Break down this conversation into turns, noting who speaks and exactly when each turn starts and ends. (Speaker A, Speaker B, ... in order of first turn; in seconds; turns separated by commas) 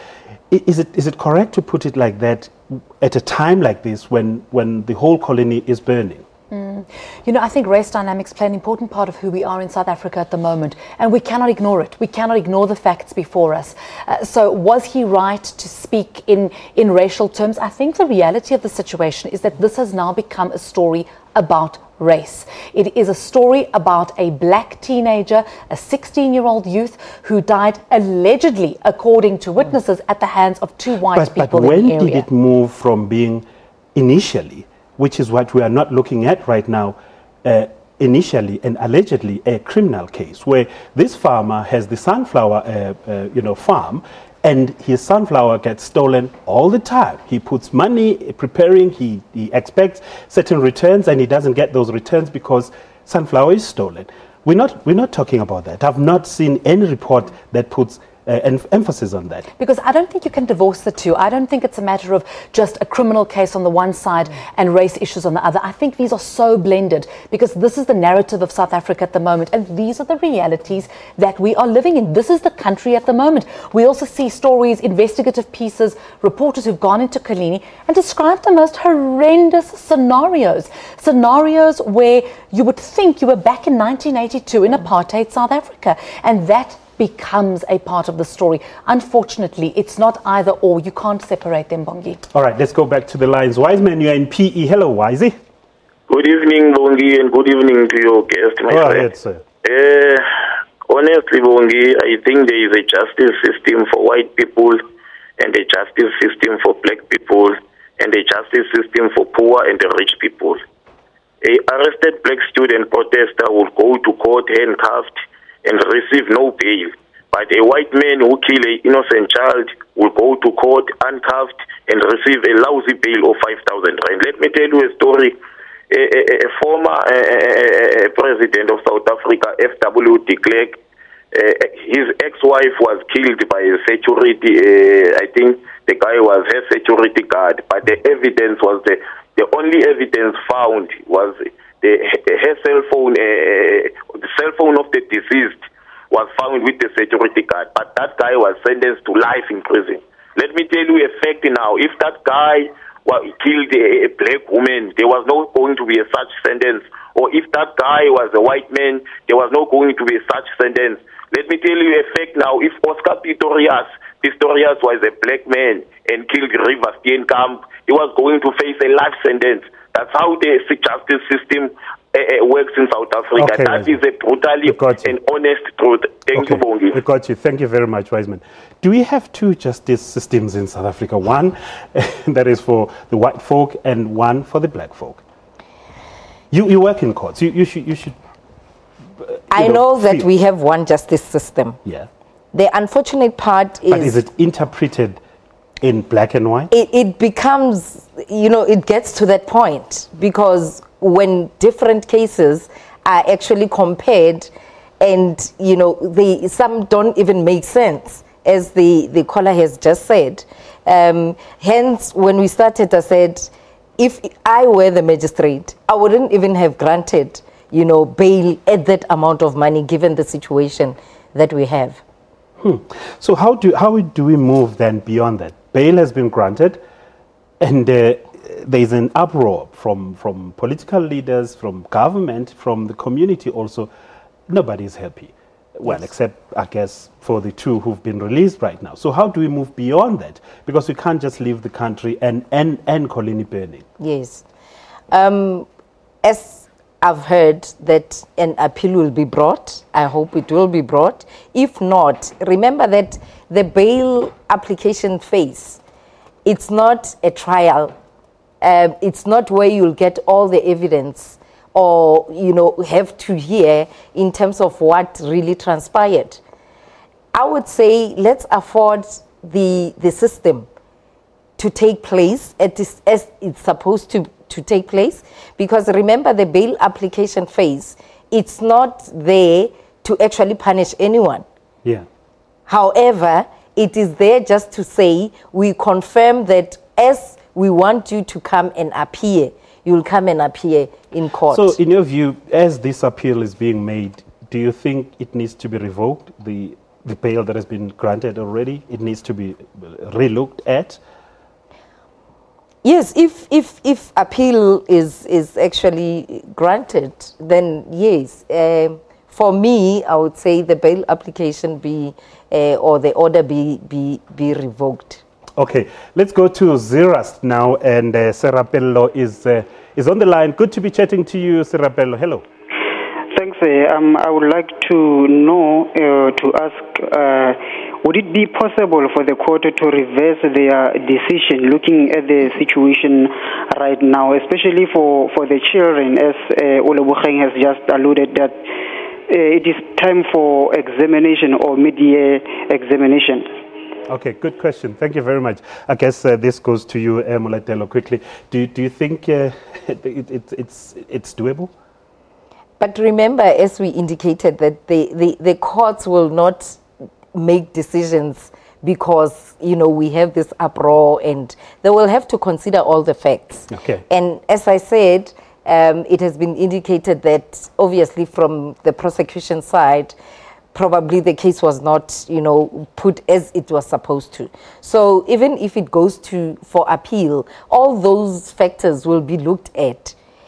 Speaker A: 0.5-6.2, Speaker B: 6.5-32.3, Speaker A: 31.1-59.5, Speaker B: 59.6-92.2, Speaker A: 92.3-95.3, Speaker C: 96.1-99.1, Speaker A: 98.7-99.4, Speaker C: 99.6-100.3, Speaker C: 100.9-104.8, Speaker C: 105.4-110.6, Speaker C: 111.4-125.4, Speaker C: 125.9-130.8, Speaker C: 131.3-177.0, Speaker A: 173.3-174.0, Speaker A: 174.7-175.1, Speaker A: 176.3-185.2, Speaker A: 186.5-188.2, Speaker A: 189.3-190.2, Speaker D: 189.5-191.8, Speaker D: 192.5-194.2, Speaker A: 193.9-195.2, Speaker A: 195.8-196.7, Speaker D: 196.7-222.0, Speaker A: 222.6-226.8, Speaker A: 227.6-233.9, Speaker A: 234.5-243.8, Speaker D: 244.0-244.4, Speaker D: 245.1-245.7, Speaker D: 246.2-255.8, Speaker D: 256.4-257.9, Speaker D: 258.6-266.4, Speaker D: 267.3-270.7, Speaker D: 271.6-281.4, Speaker D: 282.7-291.8, Speaker A: 291.5-301.0, Speaker D: 302.8-315.2, Speaker A: 315.6-322.4, Speaker E: 323.3-338.6, Speaker E: 339.3-343.6, Speaker A: 344.1-351.7, Speaker D: 352.8-356.8, Speaker D: 357.3-370.1, Speaker A: 363.7-364.0, Speaker D: 370.7-380.1